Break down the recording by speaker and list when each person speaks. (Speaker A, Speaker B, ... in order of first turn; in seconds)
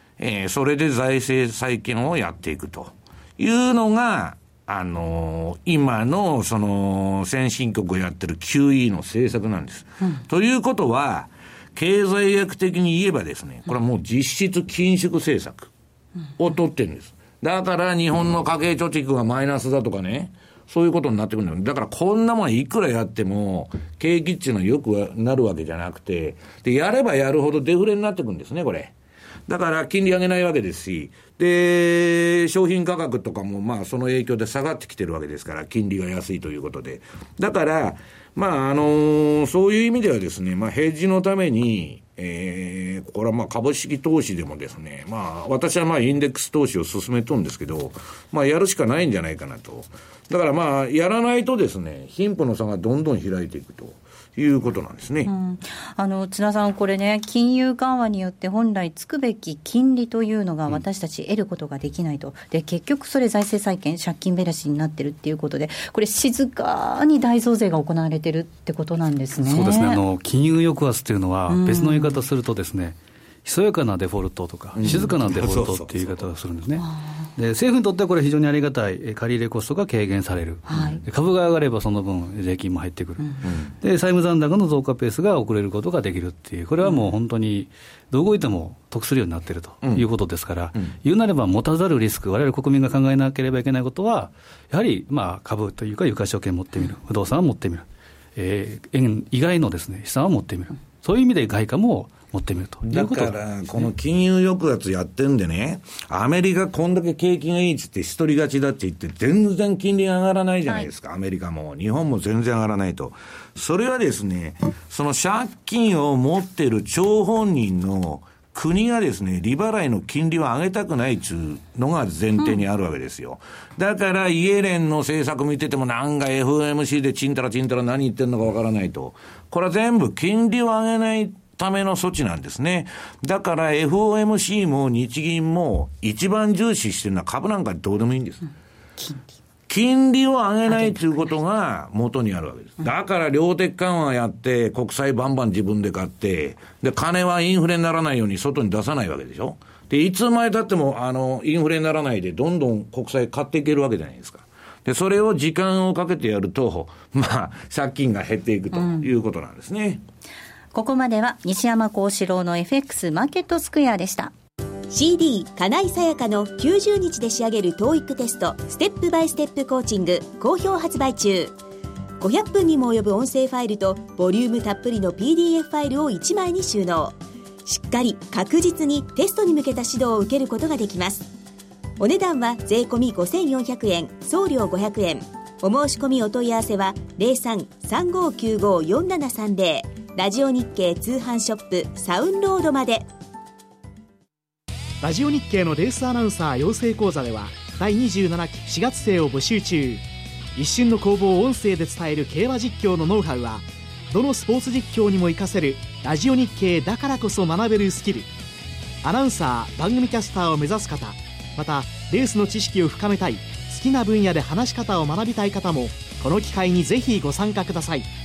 Speaker A: 0.2-15.7, 16.4-28.9, 29.5-55.3, 74.8-76.3, 80.7-81.0, 102.8-138.4, 139.7-160.0
Speaker B: 55.2-70.0, 71.5-72.2, 80.7-81.0, 139.0-139.3, 140.7-141.2, 158.7-159.1, 160.7-164.3
Speaker C: 69.4-76.8, 77.4-103.3
Speaker D: 164.9-171.5, 172.2-181.3, 182.0-193.1
Speaker E: 195.0-200.0, 200.6-208.3, 209.0-218.1